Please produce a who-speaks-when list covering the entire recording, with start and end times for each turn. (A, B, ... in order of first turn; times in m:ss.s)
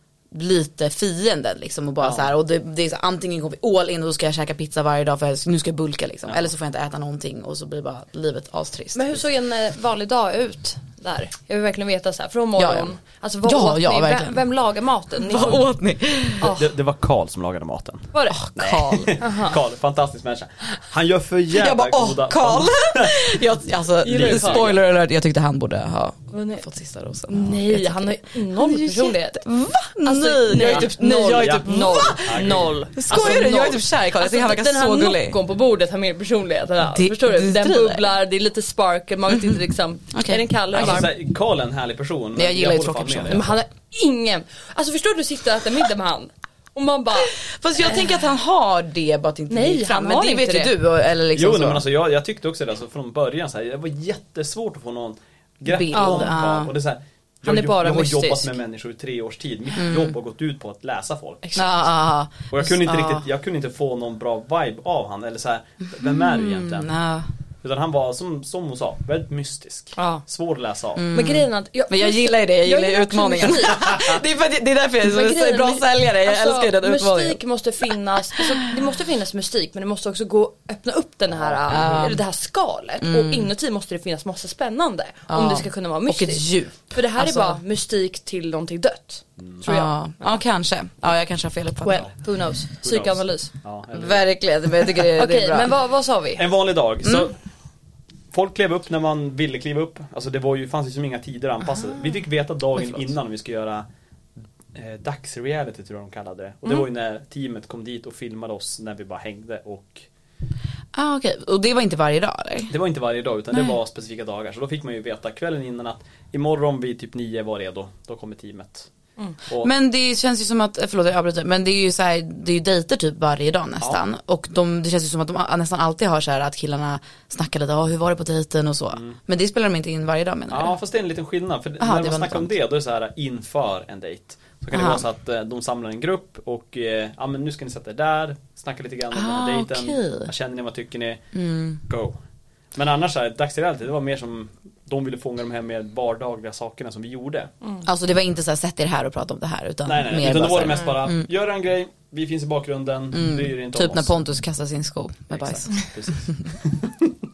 0:00.3-0:09.2 A
0:02.0-0:02.3 B
0:08.9-0:15.7 C
0:12.6-0:12.9 A
0:13.4-0:14.4 A
0:15.3-0:16.5 A
0:16.4-0:16.7 C
0:16.4-0:23.3 B
0:18.1-0:18.5 C
0:18.3-0:19.1 A
0:19.0-0:19.6 C
0:21.5-0:35.4 A
0:24.0-0:24.8 B
0:24.0-0:24.7 C
0:26.3-0:26.6 C
0:27.3-0:29.4 C
0:30.0-0:41.1 C
0:30.6-0:33.6 B
0:36.8-0:38.0 A
0:39.3-0:39.6 A
0:40.1-0:41.1 A
0:40.7-0:43.6 B
0:42.4-0:43.5 A
0:43.3-0:48.2 C
0:47.3-0:51.8 A
0:49.5-0:50.7 C
0:51.3-1:01.6 B
0:55.6-0:56.7 A
0:55.9-0:56.4 C
0:57.4-0:58.6 C
0:59.8-1:00.1 A
1:01.6-1:03.2 A
1:02.5-1:06.9 B
1:06.0-1:07.3 A
1:07.6-1:11.1 B
1:10.0-1:10.2 C
1:11.0-1:18.7 A
1:11.1-1:14.0 C
1:15.0-1:30.4 C
1:21.3-1:22.1 B
1:21.7-1:22.2 A
1:23.0-1:23.5 A
1:25.3-1:27.6 A
1:29.4-1:29.6 B
1:29.6-1:32.0 A
1:31.8-1:33.5 C
1:32.8-1:34.3 B
1:33.9-1:35.7 A
1:35.1-1:36.4 C
1:36.4-1:37.4 B
1:38.3-1:43.8 B
1:44.7-1:50.0 B
1:50.9-1:52.7 A
1:52.7-1:58.9 B
1:59.4-1:59.7 B
1:59.6-2:10.8 A
2:10.5-2:21.2 B
2:11.8-2:12.5 A
2:14.7-2:15.0 A
2:19.1-2:20.3 A
2:21.3-2:21.8 A
2:21.8-2:22.2 B
2:22.7-2:27.5 B
2:27.8-2:31.3 A
2:29.8-2:34.1 B
2:33.1-2:35.8 A
2:35.3-2:37.1 B